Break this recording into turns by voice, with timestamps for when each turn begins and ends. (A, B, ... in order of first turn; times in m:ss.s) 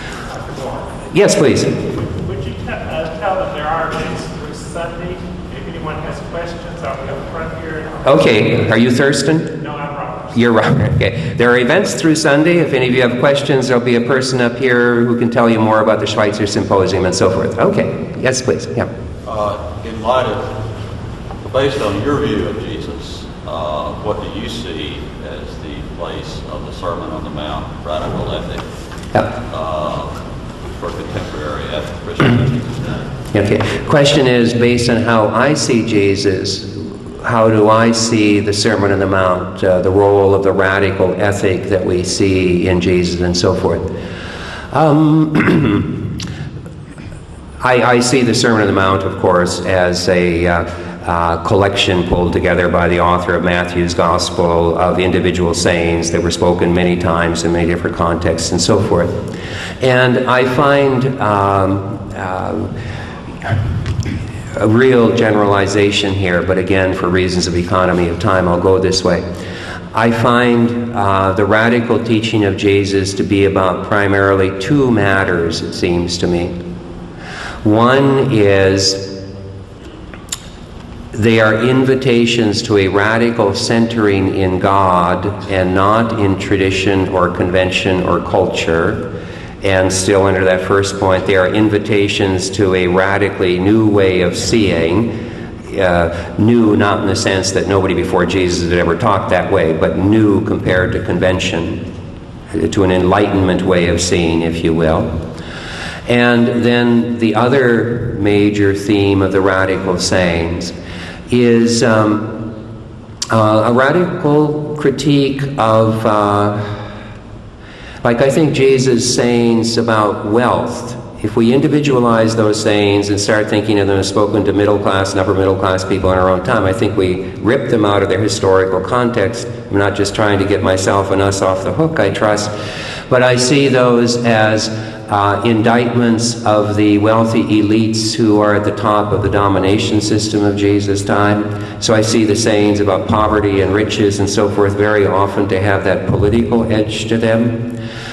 0:00.4-0:01.0 A
0:01.1-0:01.8 B
0:01.8-0:08.2 A
0:08.0-0:09.6 B
0:09.6-0:10.4 A
0:10.3-0:18.9 B
0:19.2-0:20.6 C
0:21.4-0:28.6 C
0:29.3-0:33.1 C
0:33.3-0:44.0 B
0:44.7-0:46.1 B
0:47.6-1:02.7 B
1:04.5-1:09.3 B
1:09.9-1:16.6 B
1:17.6-1:19.2 B
1:21.1-1:29.1 B
1:29.6-1:41.9 B
1:42.5-1:45.2 B
1:46.1-1:50.7 B
1:51.3-1:52.5 B
1:53.3-1:56.9 B
1:58.0-2:12.5 B
2:13.1-2:27.7 B